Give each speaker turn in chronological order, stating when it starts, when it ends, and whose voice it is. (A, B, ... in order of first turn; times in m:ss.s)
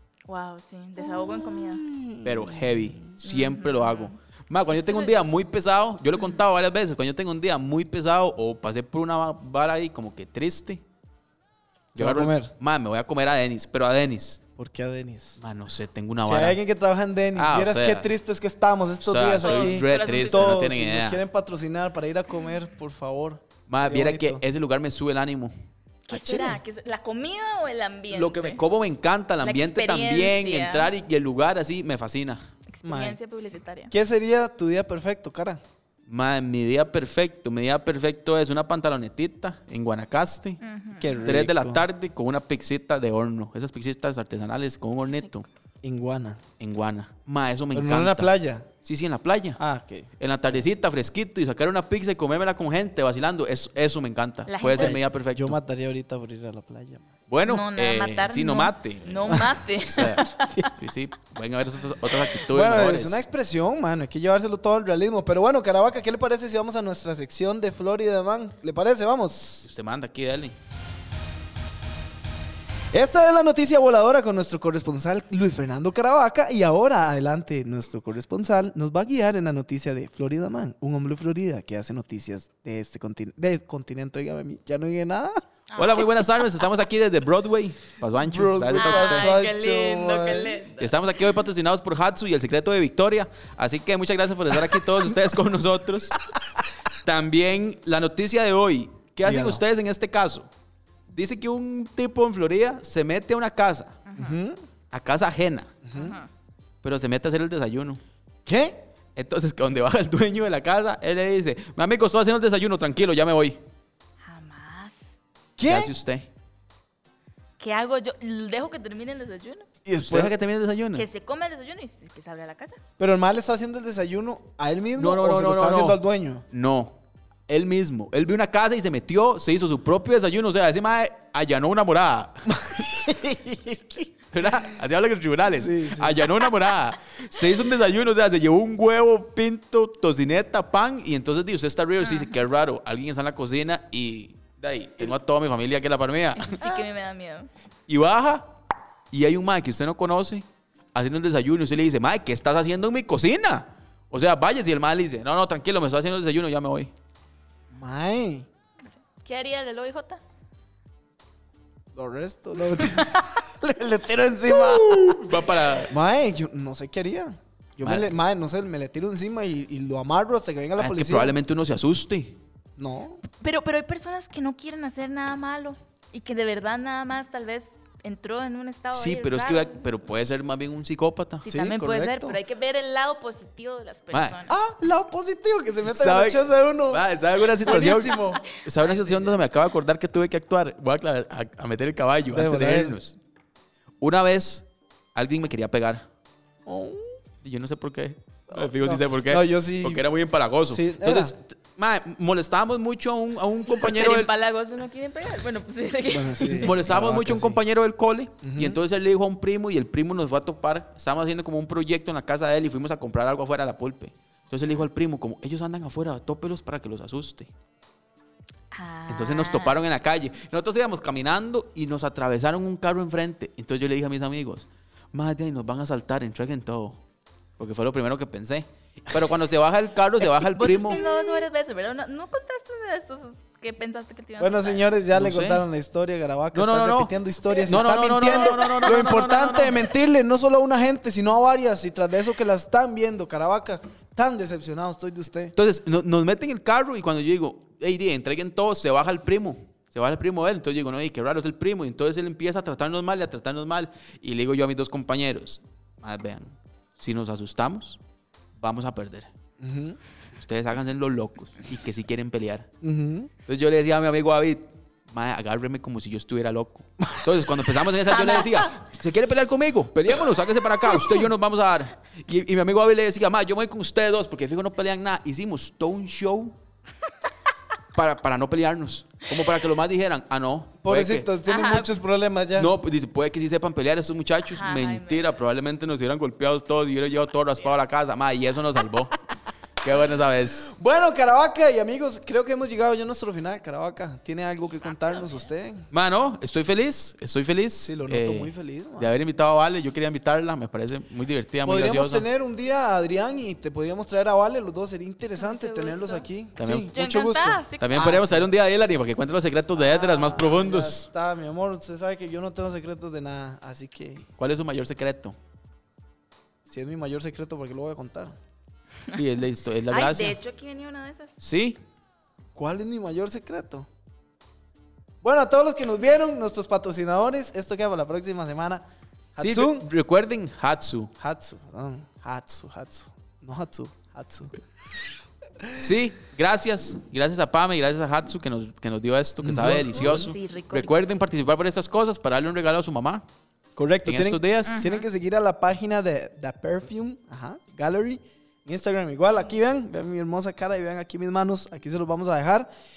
0:00.3-0:01.8 A
0:01.0-0:03.1 B
0:02.2-0:10.8 C
0:03.2-0:04.2 A
0:04.7-0:05.2 A
0:11.9-0:12.5 B
0:12.0-0:14.4 C
0:14.6-0:15.4 B
0:15.4-0:16.6 C
0:16.2-0:24.4 B
0:17.4-0:18.1 C
0:19.0-0:21.2 C
0:19.4-0:20.6 A
0:23.7-0:25.5 C
0:26.1-0:28.6 A
0:26.1-0:26.6 B
0:28.1-0:32.4 C
0:29.4-0:30.9 A
0:32.7-0:33.9 A
0:32.8-0:33.2 B
0:33.9-0:35.6 B
0:36.1-0:40.6 C
0:40.6-0:41.3 A
0:41.0-0:41.8 B
0:41.2-0:45.4 C
0:45.1-0:45.3 A
0:45.8-0:46.4 B
0:46.6-0:48.3 C
0:47.7-0:48.7 B
0:48.8-0:49.6 C
0:49.6-0:50.6 B
0:50.2-0:55.6 C
0:54.5-0:55.0 A
0:54.7-0:57.1 B
0:57.3-1:03.2 C
0:57.4-1:00.7 A
1:00.0-1:00.7 B
1:02.4-1:09.7 B
1:09.6-1:10.6 C
1:12.9-1:25.4 B
1:25.7-1:26.0 A
1:25.8-1:29.3 C
1:28.2-1:30.6 B
1:28.7-1:31.0 A
1:30.8-1:36.2 C
1:37.0-1:40.5 C
1:39.2-1:39.6 B
1:41.1-1:44.0 C
1:44.1-1:44.4 A
1:44.2-1:44.6 B
1:44.9-1:45.7 C
1:45.8-1:46.2 B
1:45.9-1:46.3 A
1:46.8-1:48.0 C
1:48.4-1:48.8 B
1:49.2-1:53.6 C
1:54.2-1:55.1 A
1:55.6-1:55.9 B
1:55.6-1:56.3 C
1:57.6-1:59.7 A
1:59.8-2:00.3 B
2:00.0-2:01.1 C
2:00.9-2:02.8 A
2:03.0-2:06.4 B
2:04.9-2:06.0 C
2:06.5-2:07.0 C
2:07.5-2:12.9 C
2:12.5-2:14.1 B
2:14.3-2:26.6 C
2:15.5-2:16.3 B
2:22.0-2:22.4 A
2:26.4-2:27.5 A
2:27.9-2:28.5 C
2:29.1-2:36.9 C
2:37.7-2:38.5 B
2:39.1-2:40.2 A
2:41.9-2:51.4 B
2:44.6-2:45.9 C
2:47.8-2:48.1 C
2:50.8-2:52.4 C
2:52.8-2:53.2 B
2:53.4-2:59.9 A
2:58.9-3:01.4 C
3:01.4-3:04.6 A
3:01.4-3:02.4 B
3:04.1-3:04.4 C
3:04.5-3:07.0 B
3:05.8-3:13.2 C
3:07.6-3:08.4 B
3:07.7-3:09.4 A
3:12.3-3:13.0 B
3:14.0-3:16.0 C
3:16.6-3:17.2 B
3:17.4-3:24.3 C
3:18.5-3:20.0 B
3:20.7-3:21.3 B
3:23.7-3:26.8 A
3:26.1-3:27.6 B
3:26.6-3:37.5 C
3:28.4-3:28.8 B
3:38.7-3:39.8 A
3:39.1-3:47.0 C
3:47.6-3:51.0 C
3:50.5-3:54.9 A
3:50.8-3:51.4 B
3:54.4-4:05.5 B
3:55.1-3:55.6 C
3:56.5-3:57.1 C
3:57.5-3:59.3 A
3:57.6-3:59.8 C
4:05.5-4:18.0 C
4:18.6-4:19.3 C
4:19.6-4:20.0 B
4:20.3-4:22.7 C
4:22.8-4:23.3 B
4:23.4-4:36.6 C
4:28.1-4:28.6 A
4:37.9-4:41.3 C
4:40.8-4:42.7 B
4:41.4-4:41.9 A
4:42.6-4:49.2 C
4:44.4-4:45.3 A
4:49.8-4:50.7 C
4:50.6-4:55.8 B
4:54.8-4:55.4 A
4:55.9-5:02.2 C
4:57.8-4:59.2 B
5:01.6-5:08.5 B
5:05.4-5:06.2 A
5:06.6-5:11.1 C
5:06.9-5:08.2 A
5:09.8-5:14.2 B
5:14.4-5:15.4 C
5:16.7-5:18.4 B
5:19.1-5:20.4 C
5:19.9-5:21.4 A
5:21.4-5:21.8 C
5:22.6-5:23.9 B
5:25.2-5:29.9 B
5:29.4-5:31.1 C
5:31.2-5:34.6 B
5:35.6-5:35.9 B
5:35.8-5:43.2 C
5:39.4-5:40.3 B
5:39.9-5:41.0 A
5:43.8-5:52.7 B
5:44.0-5:44.8 C
5:44.6-5:45.0 A